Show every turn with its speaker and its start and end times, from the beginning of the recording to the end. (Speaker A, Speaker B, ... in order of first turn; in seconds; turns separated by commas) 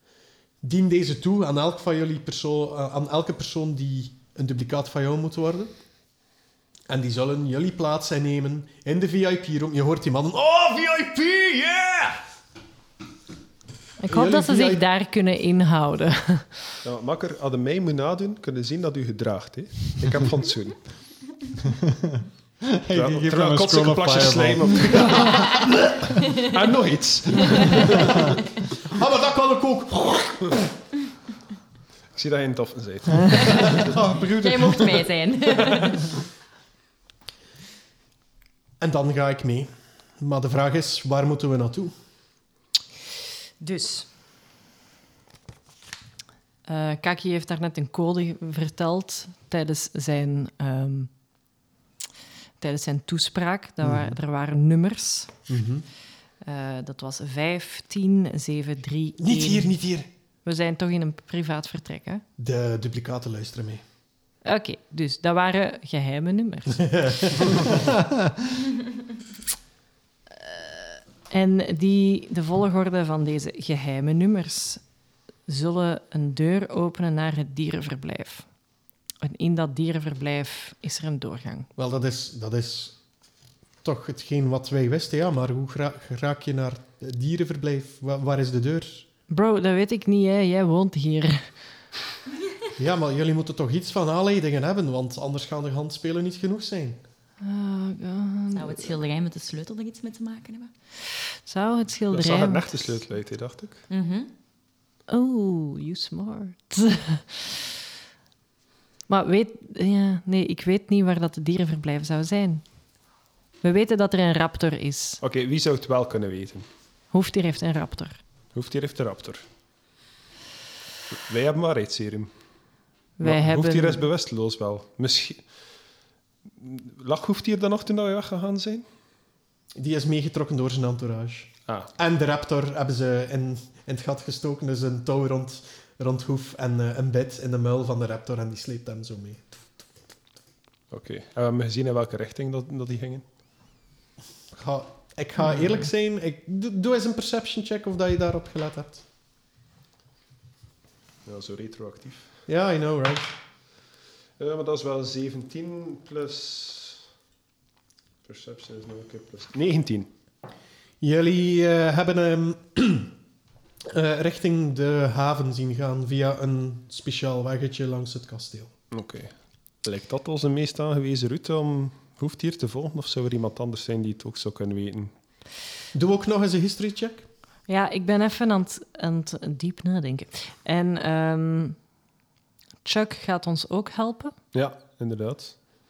Speaker A: 0.6-5.7, Speaker A: 6.9-12.2, Speaker B: 14.0-16.6, Speaker C: 14.1-14.8, Speaker C: 16.8-20.8, Speaker D: 22.8-25.4, Speaker C: 22.9-25.5, Speaker C: 26.4-28.0, Speaker A: 28.8-30.6, Speaker C: 32.1-33.9, Speaker D: 33.8-35.1, Speaker E: 34.3-36.1, Speaker A: 38.8-41.9, Speaker B: 43.6-44.0, Speaker B: 46.6-51.1, Speaker B: 52.6-55.3, Speaker A: 53.8-54.2, Speaker A: 55.5-55.9, Speaker B: 56.4-59.7, Speaker A: 59.2-60.1, Speaker B: 60.4-62.2, Speaker A: 62.4-63.8, Speaker B: 64.4-67.4, Speaker A: 66.8-67.7, Speaker B: 70.4-74.8, Speaker B: 75.5-78.5, Speaker B: 79.2-81.7, Speaker A: 81.8-83.0, Speaker A: 83.8-89.0, Speaker B: 89.3-91.5, Speaker A: 92.8-97.0, Speaker B: 97.4-98.9, Speaker E: 98.5-100.7, Speaker B: 101.4-103.0, Speaker C: 102.1-103.8, Speaker E: 103.9-104.3, Speaker B: 105.1-107.7, Speaker B: 109.1-112.6, Speaker B: 113.6-115.2, Speaker C: 115.2-116.7, Speaker B: 117.1-118.2, Speaker C: 118.5-119.4, Speaker C: 121.1-122.3, Speaker B: 123.2-124.0, Speaker C: 123.2-125.4, Speaker C: 126.6-128.8, Speaker A: 129.7-139.6, Speaker C: 140.9-143.2, Speaker A: 144.5-149.0, Speaker C: 151.2-152.3, Speaker A: 152.5-153.3, Speaker C: 154.4-157.0, Speaker C: 158.2-160.1, Speaker A: 161.0-163.1, Speaker A: 163.8-168.7, Speaker C: 168.9-175.1, Speaker A: 175.9-177.2, Speaker B: 177.7-181.8, Speaker B: 182.8-184.3, Speaker C: 184.5-185.6